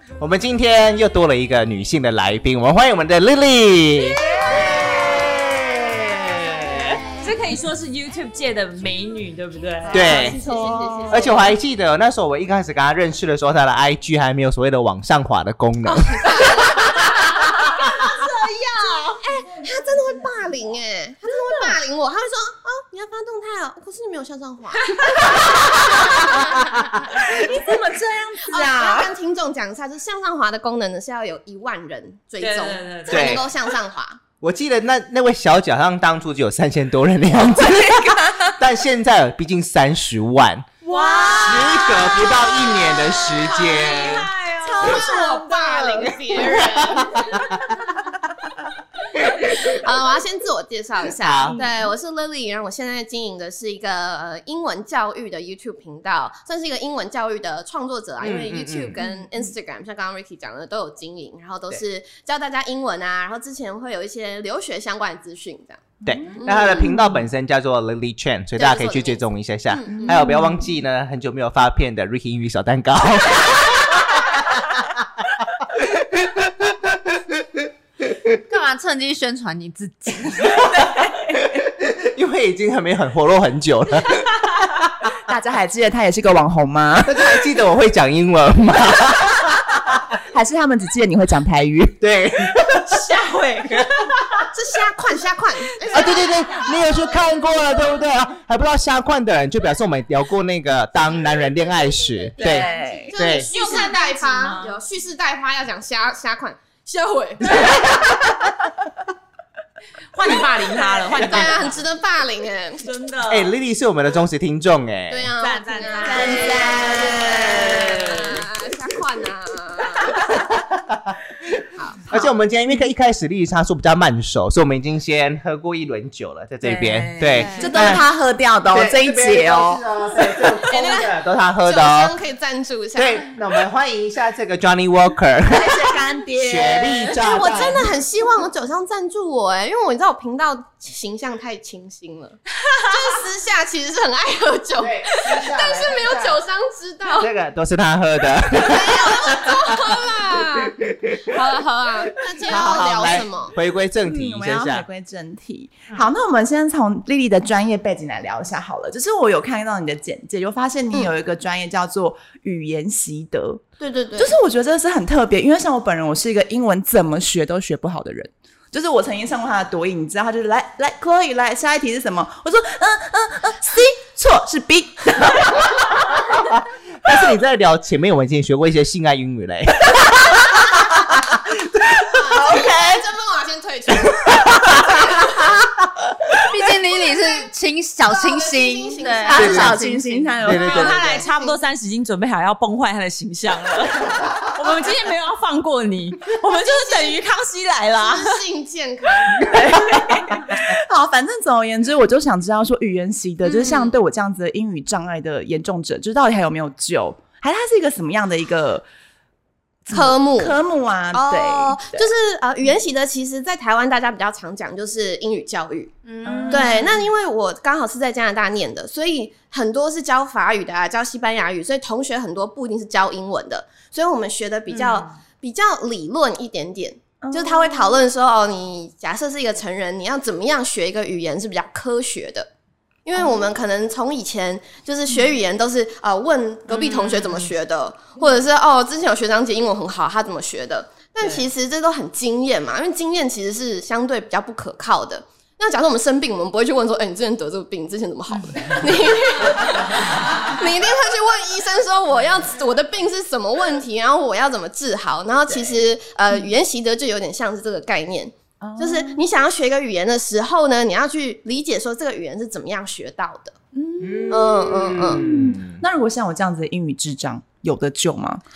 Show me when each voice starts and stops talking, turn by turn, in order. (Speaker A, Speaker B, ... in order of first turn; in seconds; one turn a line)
Speaker A: 0.2-5.0
Speaker B: 4.3-7.0
Speaker A: 6.6-6.9
Speaker C: 7.2-10.2
Speaker B: 9.8-11.5
Speaker A: 9.9-10.4
Speaker D: 9.9-11.5
Speaker A: 11.1-16.5
Speaker D: 15.9-25.4
Speaker B: 21.3-21.6
Speaker A: 25.3-27.6
Speaker D: 26.0-26.4
Speaker B: 27.0-29.1
Speaker D: 28.4-34.2
Speaker C: 32.4-33.5
Speaker A: 33.1-33.4
Speaker A: 34.4-40.7
Speaker B: 37.5-38.5
Speaker C: 40.8-45.7
Speaker A: 41.3-44.3
Speaker B: 44.6-45.9
Speaker D: 44.7-47.2
Speaker A: 46.4-48.1
Speaker A: 49.1-49.8
Speaker D: 49.5-65.8
Speaker A: 51.2-51.6
Speaker A: 58.2-59.0
Speaker B: 59.0-59.3
Speaker B: 66.0-67.2
Speaker A: 66.0-75.1
Speaker D: 66.4-66.9
Speaker D: 68.6-70.2
Speaker B: 69.9-70.7
Speaker A: 75.8-77.4
Speaker E: 78.5-80.7
Speaker A: 80.6-80.9
Speaker B: 80.9-81.5
Speaker A: 81.5-85.1
Speaker B: 85.2-87.4
Speaker A: 87.0-90.0
Speaker B: 90.3-92.0
Speaker A: 92.0-92.9
Speaker C: 92.7-94.3
Speaker D: 94.5-96.8
Speaker A: 95.9-103.5
Speaker D: 102.0-107.9
Speaker C: 102.4-104.8
Speaker B: 102.4-103.1
Speaker A: 107.5-108.3
Speaker C: 110.1-111.8
Speaker D: 111.1-112.8
Speaker C: 112.8-113.5
Speaker A: 113.3-115.3
Speaker D: 115.1-120.4
Speaker C: 115.4-118.5
Speaker B: 116.0-118.4
Speaker A: 120.6-121.2
Speaker D: 121.7-122.3
Speaker A: 122.1-128.1
Speaker B: 126.6-129.8
Speaker C: 127.3-127.7
Speaker A: 128.7-132.1
Speaker D: 130.7-133.3
Speaker A: 132.9-137.9
Speaker B: 135.4-137.2
Speaker D: 137.2-147.3
Speaker A: 144.8-146.4
Speaker A: 147.2-150.0
Speaker D: 148.5-153.6
Speaker A: 152.5-154.9
Speaker B: 154.0-163.6
Speaker D: 163.8-164.3
Speaker B: 164.2-176.0
Speaker A: 176.5-180.4
Speaker B: 180.3-181.0
Speaker D: 182.0-185.3
Speaker B: 182.1-183.1
Speaker E: 186.4-190.4
Speaker D: 186.9-187.5
Speaker D: 188.1-189.7
Speaker B: 189.2-191.2
Speaker A: 189.3-189.8
Speaker A: 190.4-191.2
Speaker C: 190.5-198.4
Speaker D: 190.6-191.6
Speaker D: 196.5-197.2
Speaker D: 198.0-199.6
Speaker B: 199.4-208.8
Speaker A: 200.3-200.6
Speaker D: 203.4-203.9
Speaker B: 209.9-212.1
Speaker D: 209.9-210.6
Speaker D: 211.1-215.9
Speaker C: 216.0-217.0
Speaker B: 216.2-217.0
Speaker D: 216.5-232.5
Speaker C: 224.7-225.2
Speaker B: 227.2-228.1
Speaker D: 233.1-263.6
Speaker C: 236.7-237.5
Speaker C: 241.2-241.5
Speaker B: 248.3-248.9
Speaker B: 258.6-259.2
Speaker B: 263.7-268.4
Speaker A: 264.0-265.8
Speaker D: 264.3-265.3